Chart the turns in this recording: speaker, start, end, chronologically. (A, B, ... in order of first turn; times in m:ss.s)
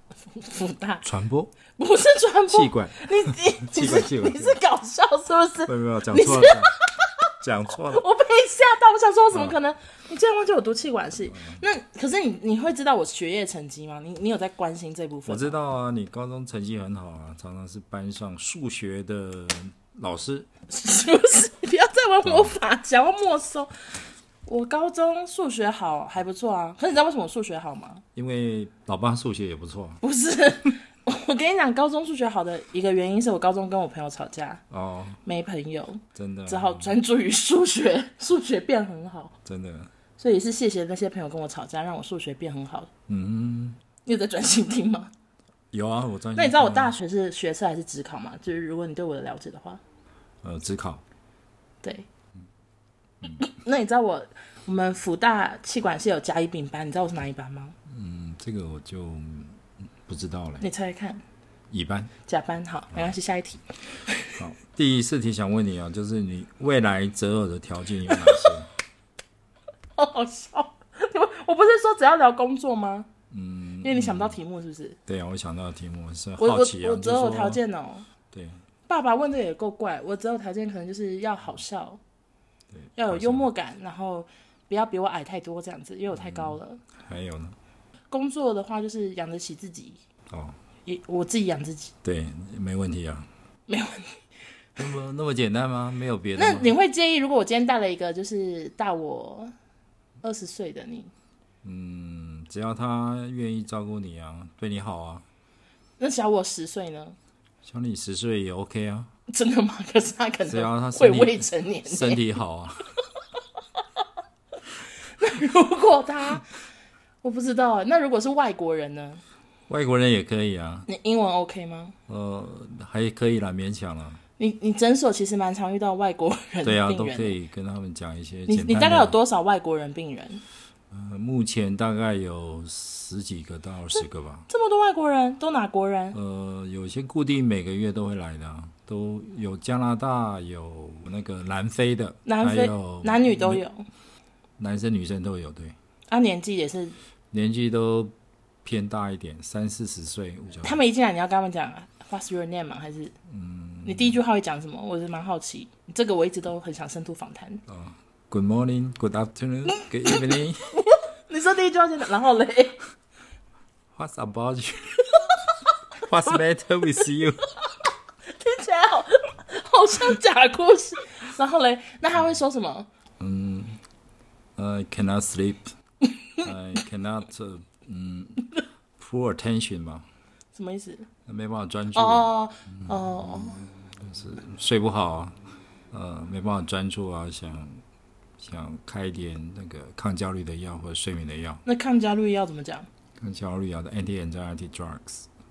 0:00.4-0:01.0 A
0:01.0-0:01.5 B
0:01.8-0:07.1 A
0:02.5-0:04.6 B
0:05.6-0:06.7 B
0:07.4-0:08.0 B
0:07.8-0:15.6 A
0:09.3-0:09.6 B
0:11.3-0:11.6 B
0:15.3-0:20.5 B
0:20.7-0:23.7 A
0:22.2-0:22.5 B
0:24.4-0:28.0 A
0:28.1-0:30.0 B
0:30.0-0:34.6 A
0:34.7-0:35.2 B
0:35.2-0:39.3 A
0:36.1-0:36.9 B
0:39.4-0:39.9 B
0:40.2-0:42.9 A
0:43.1-0:43.8 B
0:44.0-0:45.1 A
0:45.7-0:46.9 B
0:46.4-0:49.8 A
0:50.4-0:51.0 B
0:53.4-0:57.7 A
0:57.9-1:00.6 B
1:00.6-1:01.2 A
1:01.7-1:02.1 B
1:02.2-1:04.4 A
1:04.4-1:08.7 B
1:10.0-1:13.1 A
1:13.3-1:14.4 B
1:13.8-1:15.0 A
1:15.1-1:17.6 B
1:16.4-1:18.1 A
1:18.3-1:18.6 B
1:18.9-1:22.0 A
1:22.7-1:23.5 B
1:23.0-1:26.8 A
1:26.1-1:27.6 B
1:28.1-1:30.0 A
1:30.3-1:30.6 B
1:30.8-1:31.9 A
1:32.0-1:33.3 B
1:33.7-1:34.2 A
1:34.8-1:36.7 B
1:36.4-1:39.5 A
1:40.2-1:41.1 A
1:41.6-1:45.2 B
1:46.0-1:47.2 A
1:47.6-1:49.1 B
1:49.3-1:52.2 A
1:50.5-1:52.9 B
1:55.2-1:56.5 A
1:57.2-1:59.2 A
1:59.7-2:00.9 B
2:00.9-2:01.9 A
2:02.1-2:04.2 B
2:04.4-2:07.4 A
2:06.6-2:09.1 B
2:08.5-2:10.4 A
2:10.9-2:14.5 B
2:14.5-2:16.2 A
2:16.1-2:23.6 B
2:22.2-2:23.9 A
2:24.6-2:25.7 B
2:26.1-2:27.0 A
2:27.3-2:30.8 B
2:30.6-2:33.1 A
2:33.3-2:34.2 B
2:33.8-2:37.6 A
2:37.7-2:40.7 B
2:39.8-2:42.8 A
2:43.9-2:45.2 B
2:46.0-2:47.5 B
2:48.3-2:52.9 A
2:53.2-2:53.8 B
2:54.6-2:55.7 B
2:56.4-3:00.1 B
3:00.5-3:01.1 A
3:01.2-3:05.4 B
3:01.9-3:03.6 A
3:05.9-3:07.8 B
3:08.4-3:11.6 B
3:11.6-3:12.9 A
3:13.2-3:15.3 B